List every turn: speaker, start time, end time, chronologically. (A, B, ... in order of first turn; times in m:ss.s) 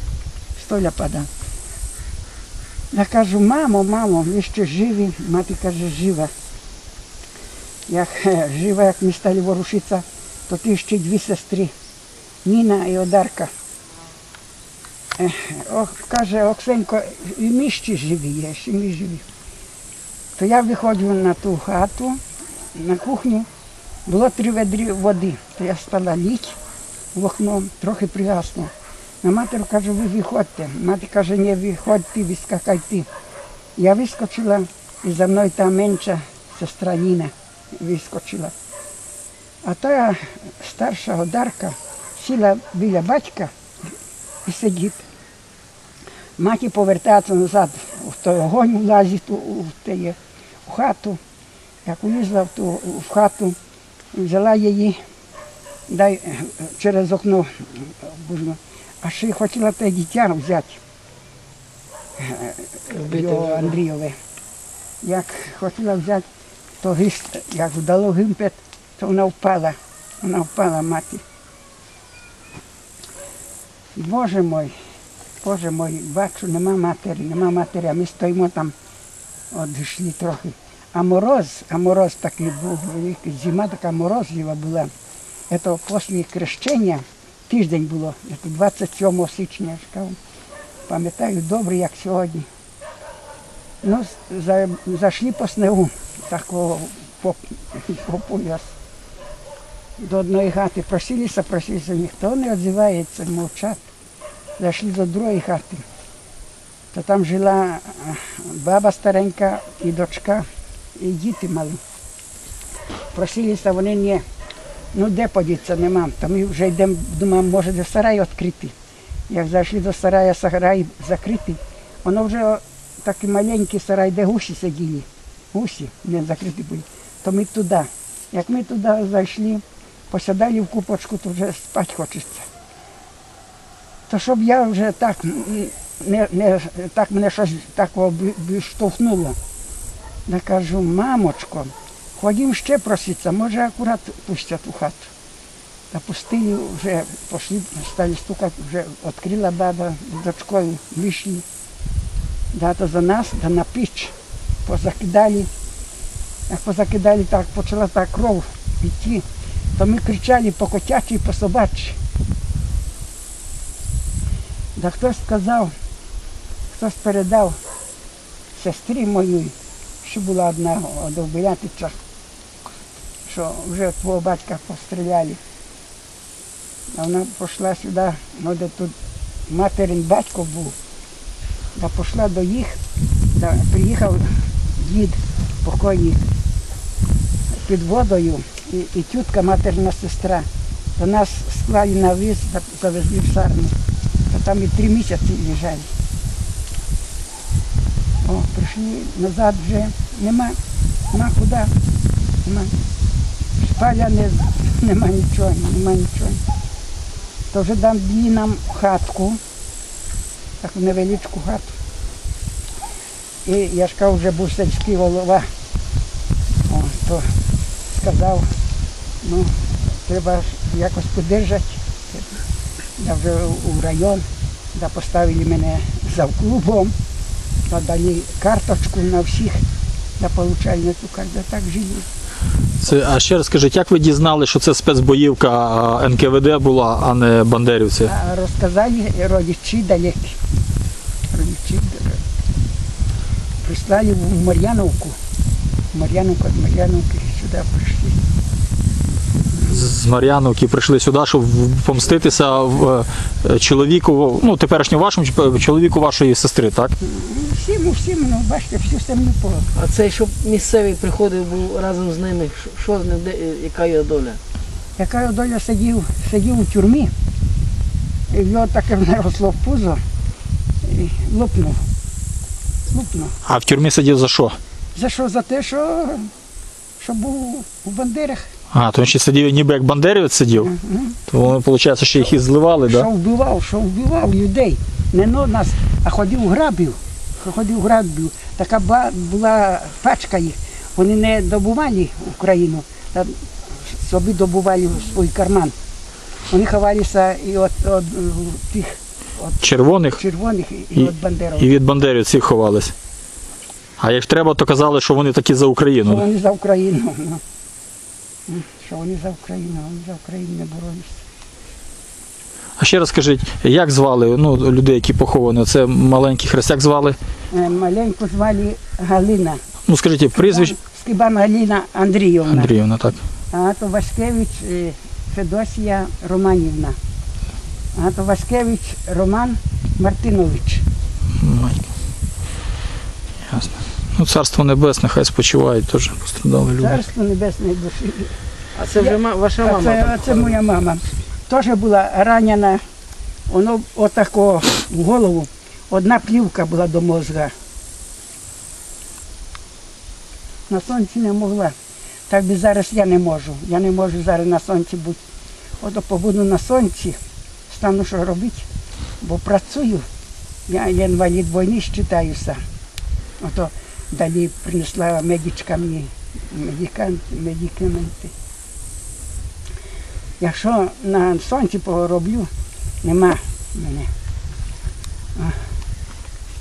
0:00.6-0:01.3 A
0:02.9-0:06.3 A
0:07.9-0:11.7 A
0:12.4-0:13.5 A
0:15.2-0:19.2 A
0:20.4-0:22.2 A
0:22.8-0:23.5 A
0:24.1-0:26.6 A
0:27.2-0:28.7 A
0:29.2-0:33.1 A
0:33.8-0:38.5 A
0:39.6-0:43.5 A
0:44.5-0:45.0 A
0:46.4-0:51.2 A
0:51.8-0:53.6 A
0:54.1-0:55.0 A
0:55.9-1:00.8 A
1:02.2-1:04.2 A
1:02.9-1:03.7 B
1:05.0-1:06.2 A
1:06.8-1:11.2 A
1:14.0-1:14.7 A
1:15.4-1:18.7 A
1:19.5-1:24.9 A
1:25.5-1:30.2 A
1:30.9-1:32.5 A
1:33.8-1:38.7 A
1:40.0-1:43.8 A
1:44.6-1:45.8 A
1:46.9-1:51.8 A
1:53.2-1:54.2 A
1:54.9-1:58.7 A
1:59.3-2:12.5 A
2:14.1-2:19.4 A
2:20.3-2:25.1 A
2:25.9-2:31.4 A
2:32.5-2:34.1 A
2:34.7-2:35.5 A
2:36.5-2:39.2 A
2:39.8-2:42.0 A
2:44.8-2:45.7 A
2:46.7-2:47.6 A
2:48.6-2:52.0 A
2:53.3-2:55.4 A
2:56.9-2:58.9 A
2:59.5-3:00.8 A
3:01.8-3:02.8 A
3:03.4-3:06.2 A
3:07.5-3:10.5 A
3:11.0-3:13.7 A
3:14.3-3:15.9 A
3:18.2-3:20.6 A
3:21.1-3:21.7 A
3:22.4-3:22.7 A
3:23.6-3:26.4 A
3:27.5-3:29.4 A
3:30.6-3:31.8 A
3:33.4-3:35.5 A
3:36.7-3:37.3 A
3:37.9-3:38.5 A
3:39.2-3:42.3 A
3:43.0-3:46.9 A
3:47.7-3:49.6 A
3:50.2-3:52.1 A
3:52.8-3:58.1 C
3:58.0-4:00.4 A
4:01.3-4:02.2 A
4:03.6-4:05.2 A
4:05.9-4:08.2 A
4:09.6-4:16.9 C
4:17.0-4:19.7 A
4:19.8-4:24.4 B
4:25.0-4:27.1 A
4:28.3-4:30.0 A
4:30.8-4:31.8 A
4:32.9-4:33.4 A
4:33.4-4:34.6 C
4:35.0-4:36.3 A
4:37.0-4:38.5 A
4:38.7-4:40.7 C
4:40.6-4:41.2 A
4:41.3-4:43.1 C
4:42.8-4:55.7 A
4:56.5-4:59.0 A
4:59.6-5:00.2 C
5:00.2-5:01.8 A
5:01.0-5:02.9 C
5:04.0-5:06.2 C
5:06.0-5:07.4 A
5:08.5-5:11.2 A
5:12.8-5:17.2 C
5:17.5-5:19.6 A
5:19.9-5:20.8 C
5:20.4-5:22.7 A
5:22.5-5:23.2 C
5:23.5-5:27.0 A
5:28.0-5:30.8 A
5:31.4-5:31.9 C
5:33.5-5:37.0 C
5:36.8-5:38.3 A
5:38.8-5:40.6 B
5:39.0-5:42.8 A
5:43.5-5:47.5 A
5:50.7-5:51.7 A
5:52.3-5:55.2 A
5:55.8-5:57.2 A
5:57.7-5:58.7 A
5:59.2-6:00.1 A
6:00.7-6:02.6 A
6:03.4-6:08.3 A
6:10.4-6:12.5 A
6:13.0-6:14.1 A